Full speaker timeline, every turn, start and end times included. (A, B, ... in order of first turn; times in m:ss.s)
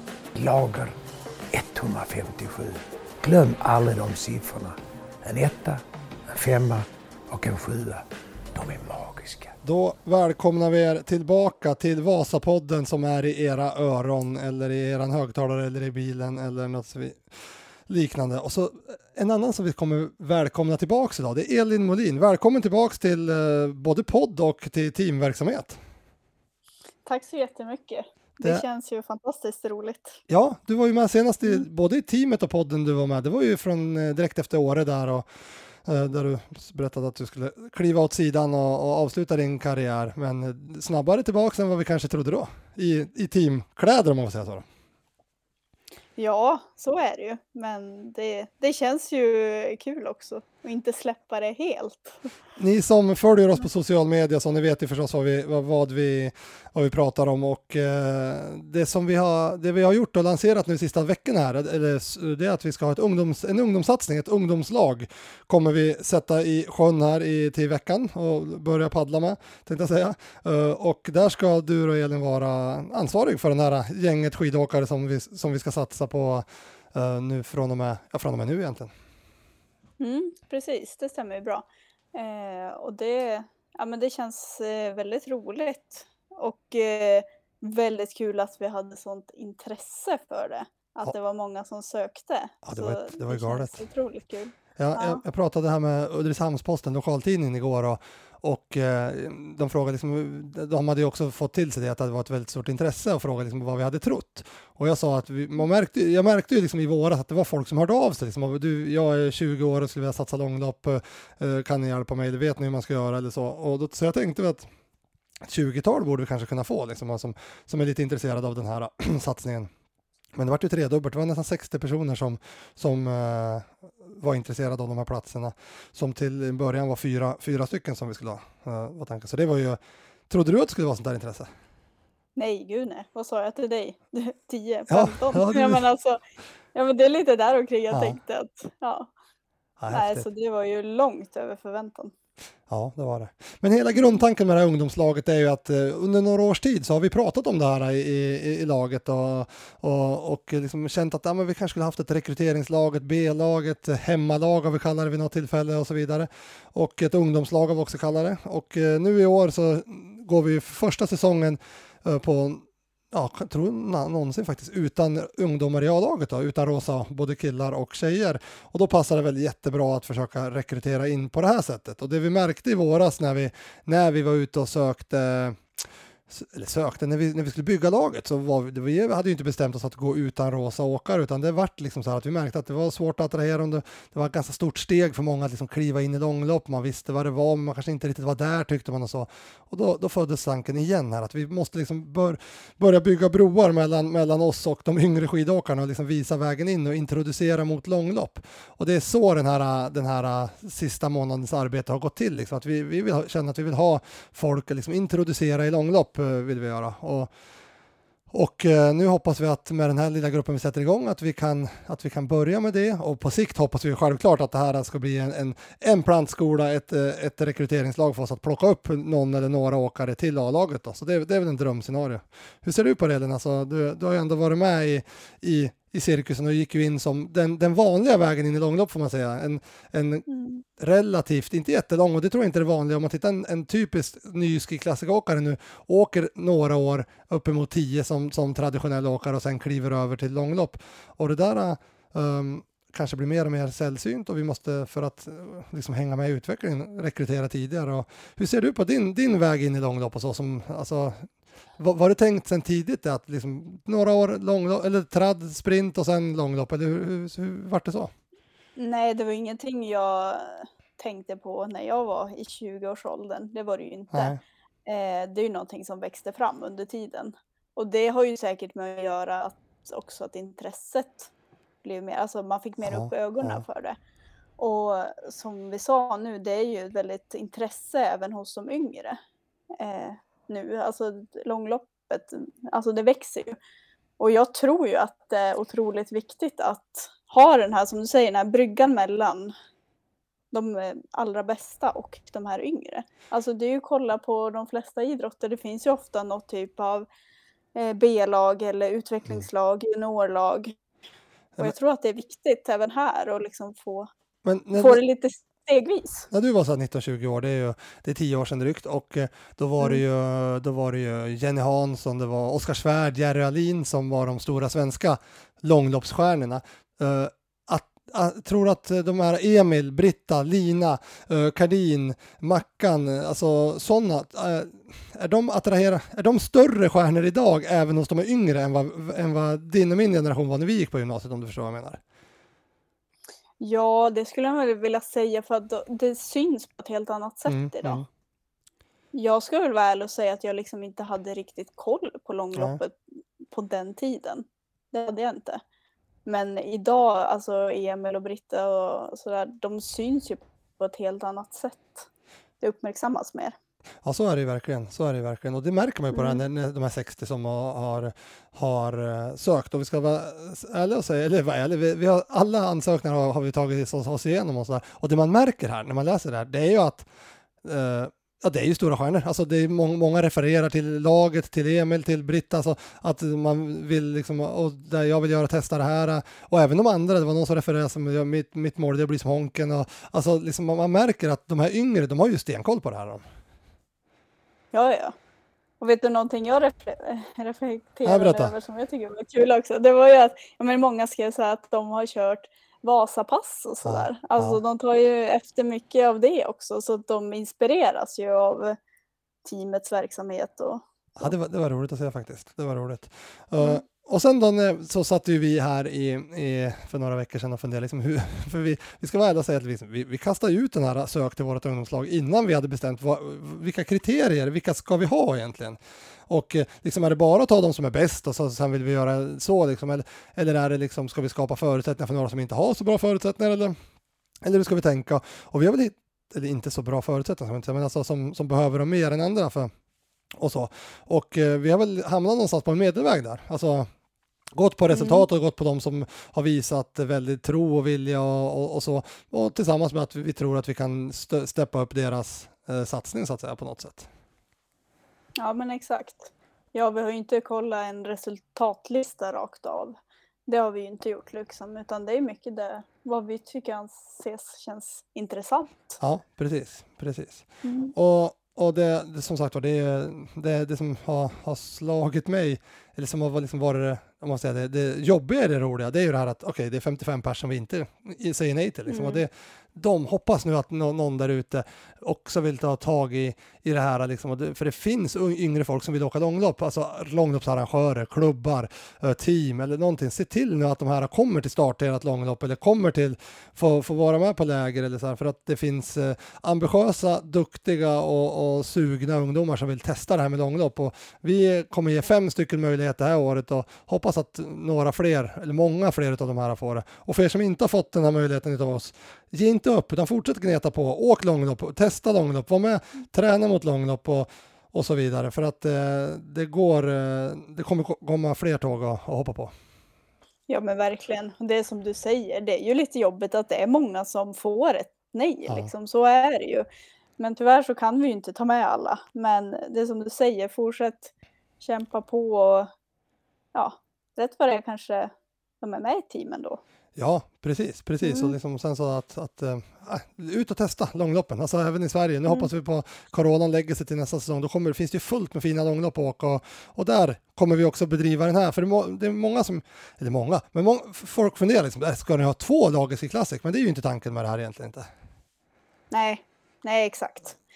0:00.3-0:00.9 A
0:01.5-0:08.0 A
0:08.5-0:09.6 A
0:09.6-0:25.8 B
0:27.0-0:30.2 C
0:30.3-0:35.3 B
0:35.8-0:44.6 B
0:46.2-0:52.3 C
0:52.6-1:18.9 B
1:20.0-1:35.2 C
1:32.6-1:33.8 B
1:34.8-1:54.6 B
1:55.4-1:59.7 B
2:00.3-2:11.5 B
2:12.4-2:16.2 C
2:14.9-2:15.8 B
2:16.7-2:19.1 C
2:17.9-2:18.2 B
2:19.8-2:20.2 B
2:19.9-2:22.1 C
2:22.7-3:27.3 B
3:28.3-3:50.2 B
3:50.3-3:50.6 C
3:50.8-4:11.3 B
4:11.8-4:18.1 B
4:18.8-4:31.3 C
4:24.1-4:24.4 B
4:31.8-4:34.0 C
4:32.8-4:33.6 B
4:34.6-4:39.2 C
4:39.8-4:43.6 C
4:44.2-4:49.5 C
4:50.5-4:57.1 C
4:57.7-5:00.7 C
5:01.6-5:04.1 C
5:04.4-5:05.0 B
5:04.7-5:06.3 C
5:06.3-5:32.0 B
5:33.6-5:38.0 C
5:37.5-5:38.0 B
5:39.1-5:43.0 C
5:43.5-5:45.6 C
5:46.2-5:52.1 C
5:52.6-5:53.6 C
5:54.0-6:07.1 B
5:56.1-5:56.4 C
6:07.6-6:23.2 B
6:24.7-6:25.1 C
6:25.8-6:38.8 C
6:28.0-6:28.5 B
6:33.8-6:34.6 B
6:39.4-6:41.3 C
6:41.2-7:03.8 B
7:04.4-7:09.7 B
7:10.4-7:13.9 B
7:14.5-7:24.1 B
7:14.9-7:15.2 C
7:25.4-7:36.0 C
7:36.0-8:29.5 B
7:37.6-7:37.9 C
7:48.9-7:49.2 C
8:30.5-8:36.7 C
8:37.2-8:42.7 C
8:43.5-8:46.6 C
8:47.0-9:04.9 B
8:48.0-8:48.3 C
9:05.9-9:07.4 C